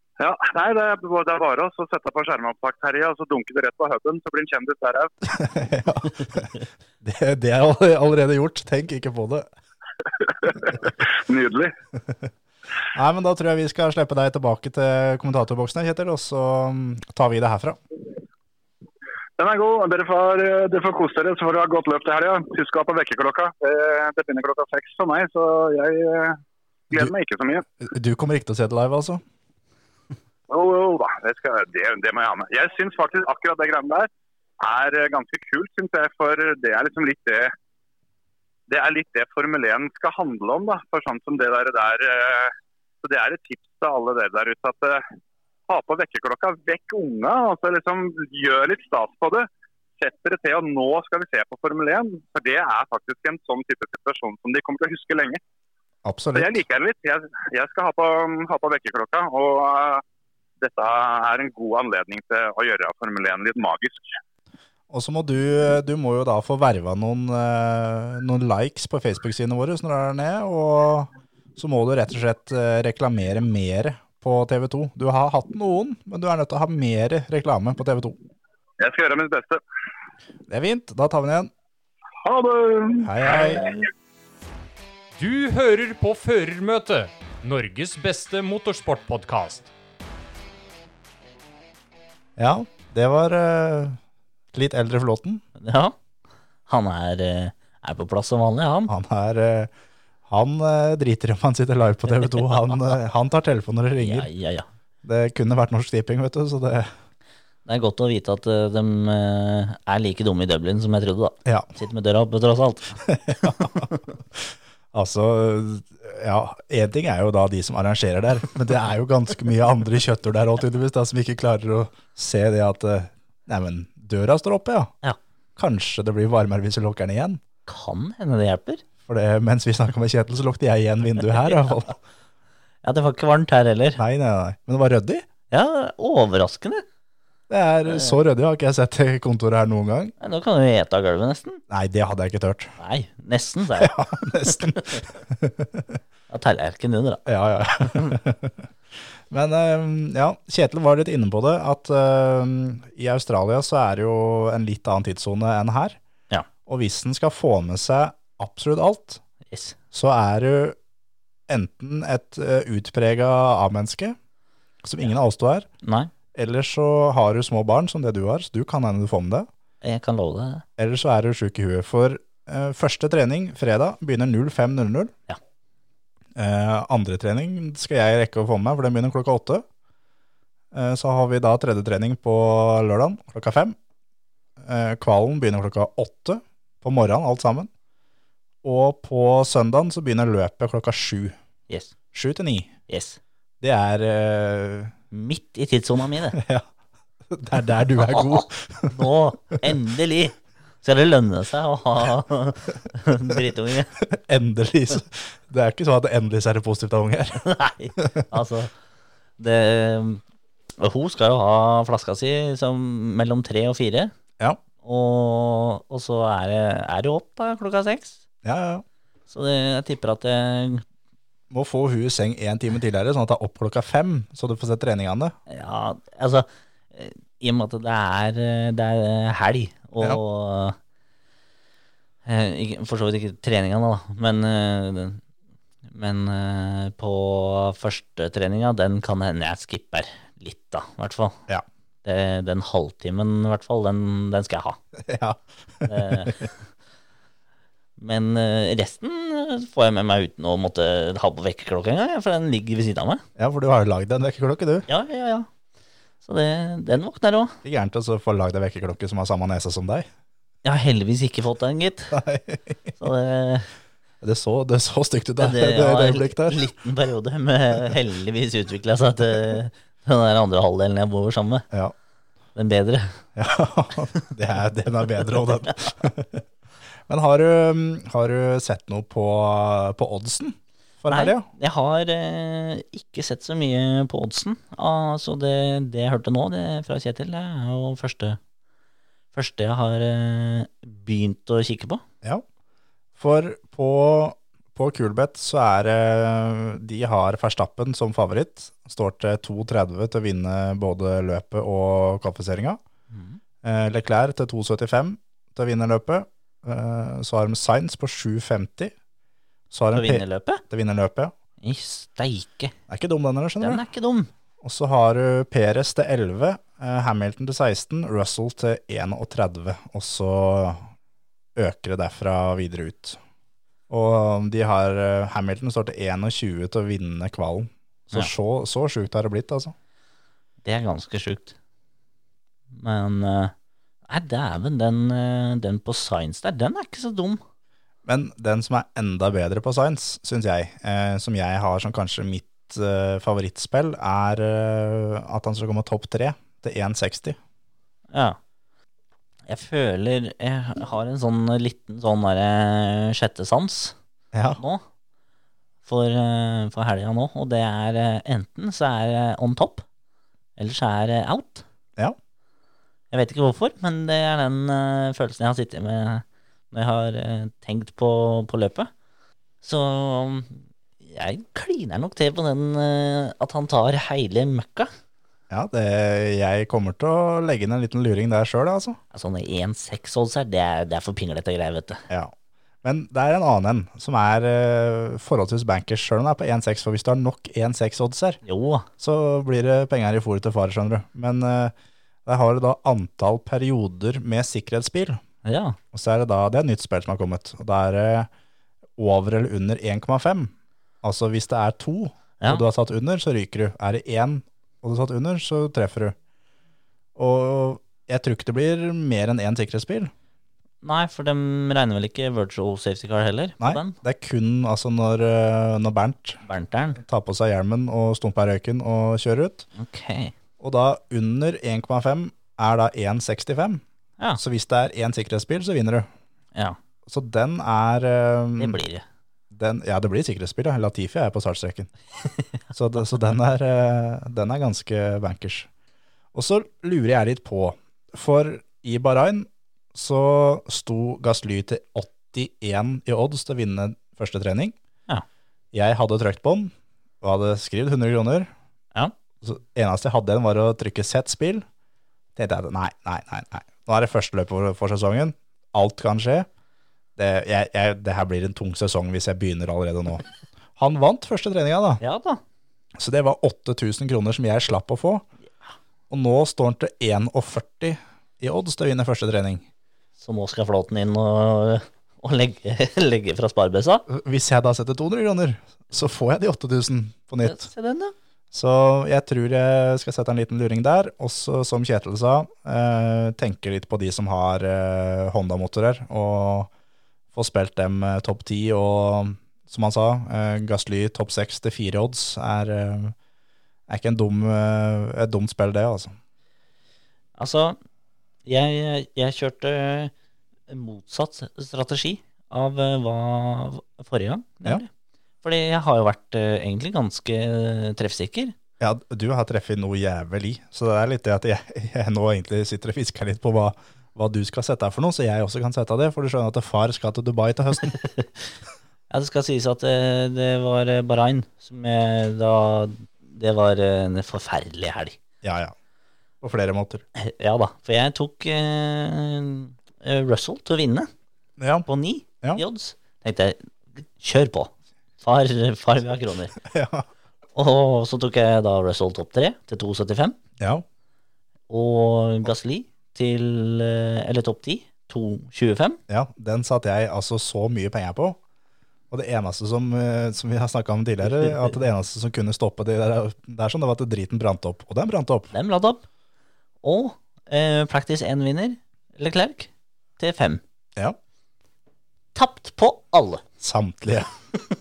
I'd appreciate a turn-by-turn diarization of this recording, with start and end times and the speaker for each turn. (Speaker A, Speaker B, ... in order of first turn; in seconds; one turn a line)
Speaker A: 0.2-5.1
Speaker B: 5.3-9.5
Speaker A: 10.3-11.7
Speaker B: 12.9-17.8
Speaker A: 19.4-27.7
Speaker B: 27.8-29.2
Speaker A: 30.5-37.5
Speaker A: 38.7-45.0
Speaker A: 45.7-49.5
Speaker A: 50.0-55.4
Speaker B: 56.0-56.6
Speaker A: 56.3-60.0
Speaker A: 60.6-64.1
Speaker B: 64.9-78.2
Speaker A: 78.8-79.6
Speaker B: 80.5-81.5
Speaker A: 82.2-83.9
Speaker B: 83.0-83.7
Speaker C: 85.2-89.7
Speaker B: 92.4-94.0
Speaker B: 94.5-95.4
Speaker D: 95.6-96.0
Speaker D: 96.7-98.9
Speaker B: 98.9-99.7
Speaker B: 100.3-104.3
Speaker D: 104.0-104.7
Speaker B: 105.0-106.9
Speaker D: 107.7-114.0
Speaker B: 113.3-124.9
Speaker B: 125.6-127.4
Speaker D: 127.7-128.8
Speaker B: 129.1-132.0
Speaker D: 132.8-134.0
Speaker B: 134.0-135.2
Speaker D: 135.5-136.8
Speaker B: 137.5-140.1
Speaker D: 140.2-141.6
Speaker B: 141.7-142.7
Speaker D: 142.8-145.1
Speaker B: 143.8-146.0
Speaker D: 146.3-147.2
Speaker B: 147.2-148.6
Speaker D: 147.8-148.2
Speaker B: 149.3-156.0
Speaker B: 156.7-159.2
Speaker D: 159.5-159.8
Speaker B: 159.9-160.8
Speaker B: 161.5-164.2
Speaker B: 164.8-165.7
Speaker D: 165.8-166.1
Speaker B: 166.3-169.5
Speaker D: 169.8-170.6
Speaker B: 170.8-175.1
Speaker B: 176.3-179.6
Speaker B: 180.7-183.8
Speaker B: 184.6-187.7
Speaker B: 188.6-191.3
Speaker B: 192.1-192.7
Speaker D: 192.9-193.2
Speaker B: 193.6-194.9
Speaker D: 195.1-196.4
Speaker B: 196.3-196.7
Speaker B: 197.3-198.9
Speaker D: 198.0-203.9
Speaker B: 204.0-207.4
Speaker D: 207.4-208.7
Speaker B: 208.0-208.2
Speaker D: 209.4-210.2
Speaker D: 210.8-214.1
Speaker D: 214.8-218.2
Speaker B: 218.4-218.8
Speaker D: 219.3-220.8
Speaker B: 221.5-225.3
Speaker D: 225.5-230.8
Speaker D: 232.2-235.2
Speaker D: 235.9-241.4
Speaker D: 242.0-244.8
Speaker B: 245.0-246.3
Speaker D: 245.8-246.5
Speaker D: 248.0-253.2
Speaker B: 253.4-254.9
Speaker D: 254.9-255.5
Speaker D: 256.2-257.6
Speaker B: 257.6-260.1
Speaker D: 260.6-262.2
Speaker B: 262.1-262.9
Speaker D: 263.0-263.7
Speaker B: 264.2-266.6
Speaker D: 265.4-271.6
Speaker D: 272.5-273.2
Speaker B: 273.4-276.4
Speaker B: 277.1-281.4
Speaker D: 281.1-288.4
Speaker D: 289.3-292.0
Speaker B: 293.2-302.8
Speaker D: 303.1-303.4
Speaker B: 303.6-308.9
Speaker B: 309.7-311.3
Speaker D: 309.9-310.6
Speaker D: 311.6-312.7
Speaker B: 312.9-313.8
Speaker D: 313.6-314.3
Speaker B: 314.6-320.9
Speaker B: 321.6-323.2
Speaker B: 323.9-329.7
Speaker D: 330.6-331.5
Speaker D: 332.7-333.5
Speaker D: 334.1-337.4
Speaker B: 338.0-347.4
Speaker D: 348.1-348.4
Speaker D: 349.5-353.9
Speaker B: 354.3-354.6
Speaker D: 354.6-354.8
Speaker D: 355.8-359.8
Speaker D: 360.6-361.6
Speaker D: 363.1-368.9
Speaker D: 369.6-374.9
Speaker B: 375.5-379.0
Speaker D: 379.1-382.0
Speaker B: 382.1-388.4
Speaker D: 388.4-388.9
Speaker B: 389.0-391.7
Speaker B: 392.2-395.2
Speaker D: 395.4-395.8
Speaker B: 395.9-398.3
Speaker B: 399.0-406.1
Speaker B: 407.1-410.1
Speaker D: 410.8-413.9
Speaker B: 413.6-416.4
Speaker D: 416.4-417.0
Speaker B: 417.0-419.7
Speaker D: 419.8-420.3
Speaker B: 420.6-423.8
Speaker B: 424.4-426.1
Speaker B: 427.1-428.8
Speaker D: 428.6-429.0
Speaker B: 429.5-431.9
Speaker B: 432.7-435.7
Speaker B: 436.3-444.7
Speaker B: 445.7-448.5
Speaker B: 449.4-451.6
Speaker B: 452.4-456.5
Speaker B: 457.2-460.2
Speaker B: 460.8-462.0
Speaker D: 462.0-462.4
Speaker B: 463.0-465.2
Speaker B: 466.1-469.6
Speaker D: 470.2-474.0
Speaker B: 474.1-477.7
Speaker D: 477.4-478.1
Speaker B: 478.5-486.7
Speaker B: 487.3-493.1
Speaker B: 493.9-496.1
Speaker D: 497.4-497.8
Speaker D: 498.4-500.1
Speaker D: 500.7-504.9
Speaker D: 505.4-508.5
Speaker B: 508.8-518.0
Speaker D: 517.9-518.3
Speaker D: 519.1-525.2
Speaker B: 525.4-525.7
Speaker B: 526.4-527.0
Speaker D: 527.1-531.1
Speaker B: 531.6-531.9
Speaker D: 531.9-536.5
Speaker B: 536.6-537.1
Speaker D: 537.5-540.4
Speaker B: 540.6-540.8
Speaker D: 541.7-546.0
Speaker B: 546.1-548.4
Speaker B: 549.1-555.5
Speaker D: 551.4-551.7
Speaker D: 555.5-556.0
Speaker D: 556.8-560.6
Speaker D: 562.3-563.4
Speaker B: 563.6-564.3